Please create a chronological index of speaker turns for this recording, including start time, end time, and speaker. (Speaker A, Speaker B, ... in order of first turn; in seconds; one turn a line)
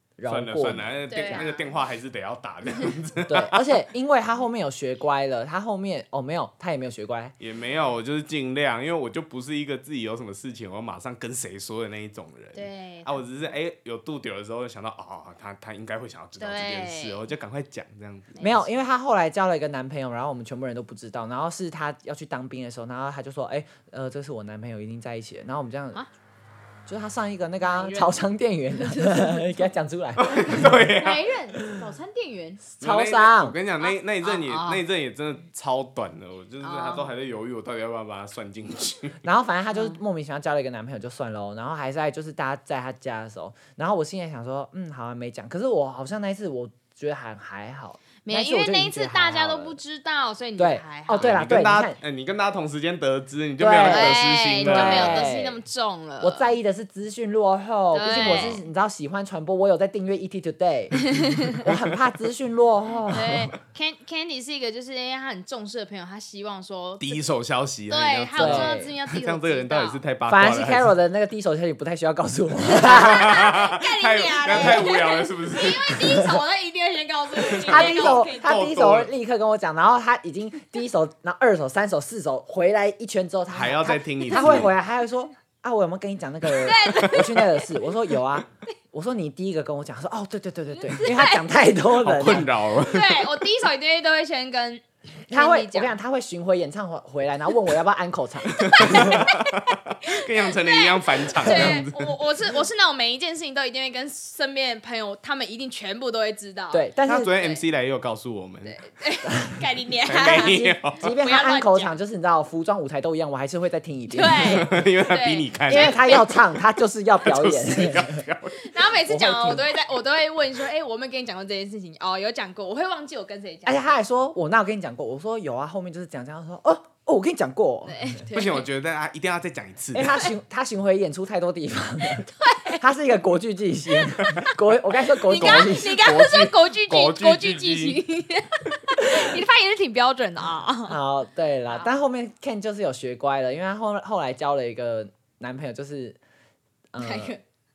Speaker A: 0.2-1.5
Speaker B: 0.3-3.5
Speaker C: 1.1-1.7
Speaker A: 3.3-7.3
Speaker B: 7.4-18.4
Speaker C: 12.5-13.2
Speaker C: 16.4-17.2
Speaker C: 18.3-18.7
Speaker A: 18.4-26.0
Speaker A: 26.9-30.8
Speaker C: 27.6-28.2
Speaker C: 28.7-29.6
Speaker B: 30.2-31.2
Speaker C: 30.3-32.6
Speaker B: 32.8-39.2
Speaker A: 32.8-33.5
Speaker C: 33.8-34.8
Speaker C: 36.6-37.1
Speaker A: 39.2-49.8
Speaker C: 39.7-40.0
Speaker C: 48.2-51.4
Speaker A: 50.6-52.0
Speaker B: 51.2-55.3
Speaker A: 53.6-55.6
Speaker C: 53.8-56.5
Speaker A: 56.2-63.5
Speaker C: 57.9-58.6
Speaker B: 58.2-58.6
Speaker C: 61.0-61.6
Speaker B: 61.6-61.9
Speaker C: 63.1-67.2
Speaker B: 67.0-70.9
Speaker C: 67.9-70.0
Speaker A: 68.3-68.9
Speaker A: 70.2-73.6
Speaker B: 72.8-76.0
Speaker C: 72.9-78.6
Speaker B: 77.5-79.1
Speaker A: 77.6-92.5
Speaker B: 83.5-84.7
Speaker C: 84.3-84.6
Speaker C: 86.5-87.9
Speaker C: 90.8-91.5
Speaker B: 91.9-93.4
Speaker C: 92.8-95.9
Speaker A: 95.3-99.3
Speaker B: 98.5-102.2
Speaker C: 98.8-99.4
Speaker C: 100.0-107.6
Speaker A: 101.4-101.8
Speaker A: 106.7-107.3
Speaker B: 107.1-108.8
Speaker C: 108.6-111.9
Speaker B: 110.0-111.0
Speaker A: 110.2-114.8
Speaker C: 114.1-116.3
Speaker B: 114.4-116.4
Speaker A: 115.7-118.2
Speaker B: 117.2-118.7
Speaker C: 118.6-123.9
Speaker A: 119.1-119.6
Speaker A: 123.7-128.0
Speaker C: 127.9-128.7
Speaker B: 128.3-130.1
Speaker A: 129.9-136.0
Speaker C: 132.2-132.8
Speaker C: 135.3-141.0
Speaker B: 135.3-138.0
Speaker A: 140.9-146.2
Speaker A: 146.9-147.3
Speaker C: 147.0-147.4